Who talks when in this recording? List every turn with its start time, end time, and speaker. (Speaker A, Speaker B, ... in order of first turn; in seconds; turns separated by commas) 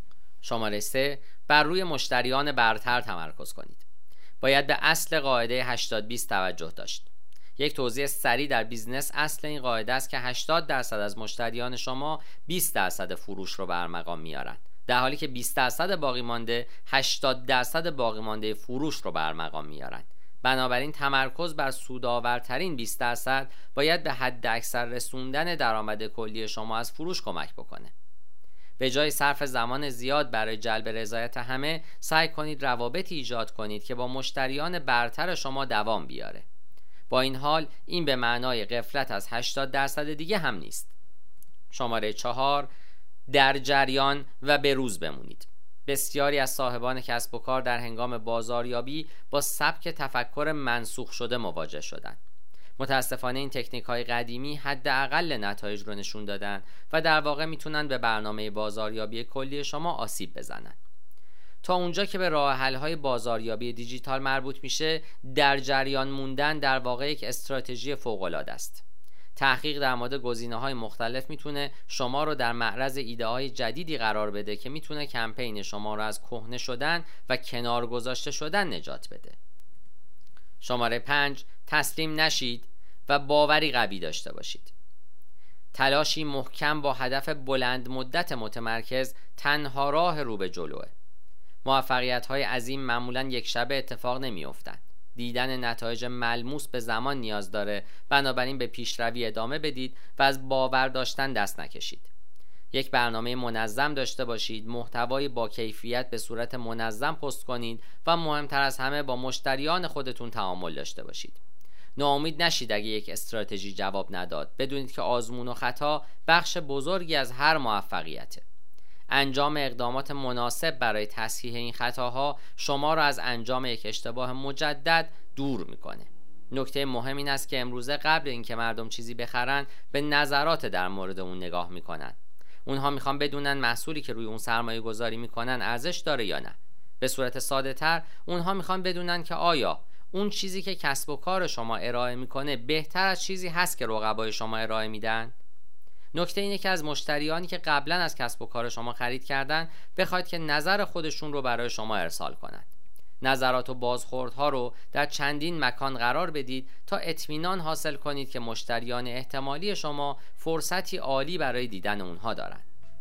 Speaker A: 0.4-3.8, Speaker A: 4.4-27.9, Speaker A: 28.8-36.5, Speaker A: 37.1-40.9, Speaker A: 41.7-42.7, Speaker A: 43.3-52.2, Speaker A: 52.8-60.8, Speaker A: 61.6-68.8, Speaker A: 69.4-79.4, Speaker A: 80.6-84.7, Speaker A: 85.7-90.9, Speaker A: 91.6-102.1, Speaker A: 102.7-111.4, Speaker A: 112.0-118.4, Speaker A: 119.1-145.3, Speaker A: 146.1-152.7, Speaker A: 153.2-162.6